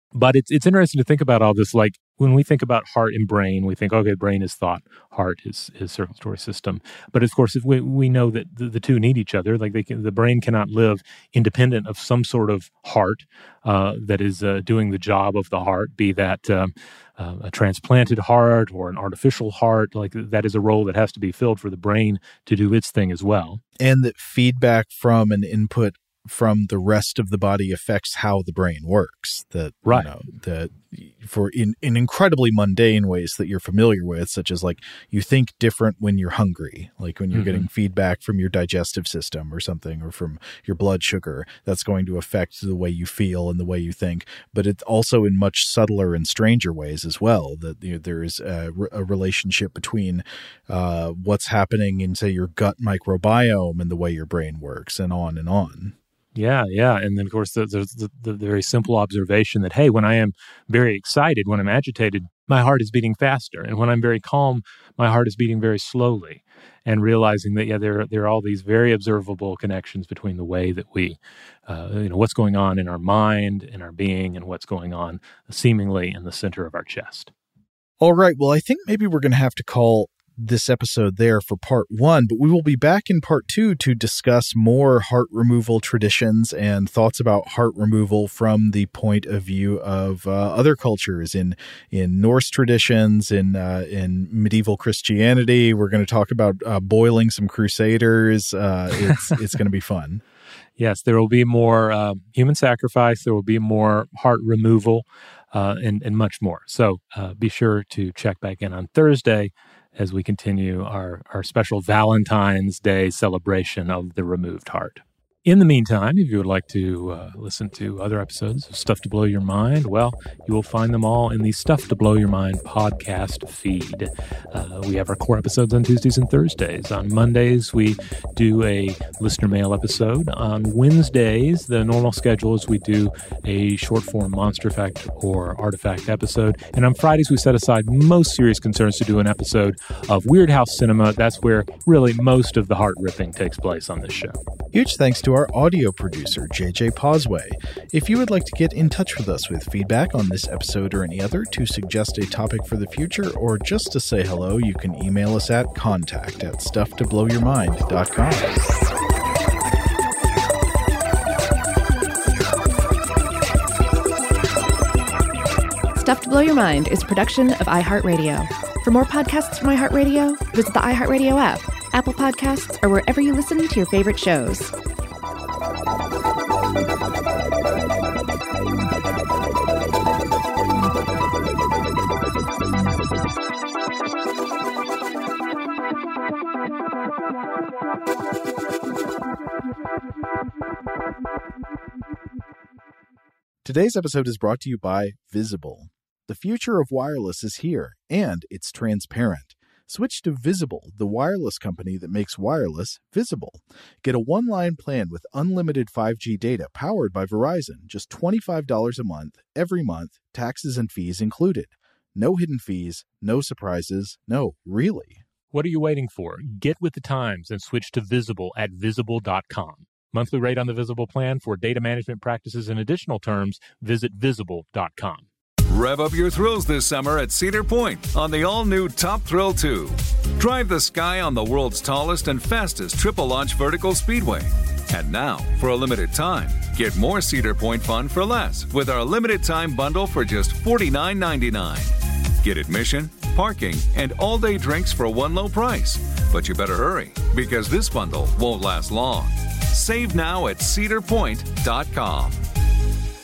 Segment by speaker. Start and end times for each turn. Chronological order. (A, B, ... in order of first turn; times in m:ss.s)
0:00.1-0:23.6 A
0:23.8-0:56.0 B
0:37.3-0:37.7 A
0:56.4-1:17.3 A
1:18.0-1:40.2 B
1:40.8-2:24.4 A
2:24.7-2:38.7 B
2:46.0-2:54.7 C
3:13.6-3:35.2 B
3:35.5-3:45.2 A
3:45.7-4:12.4 D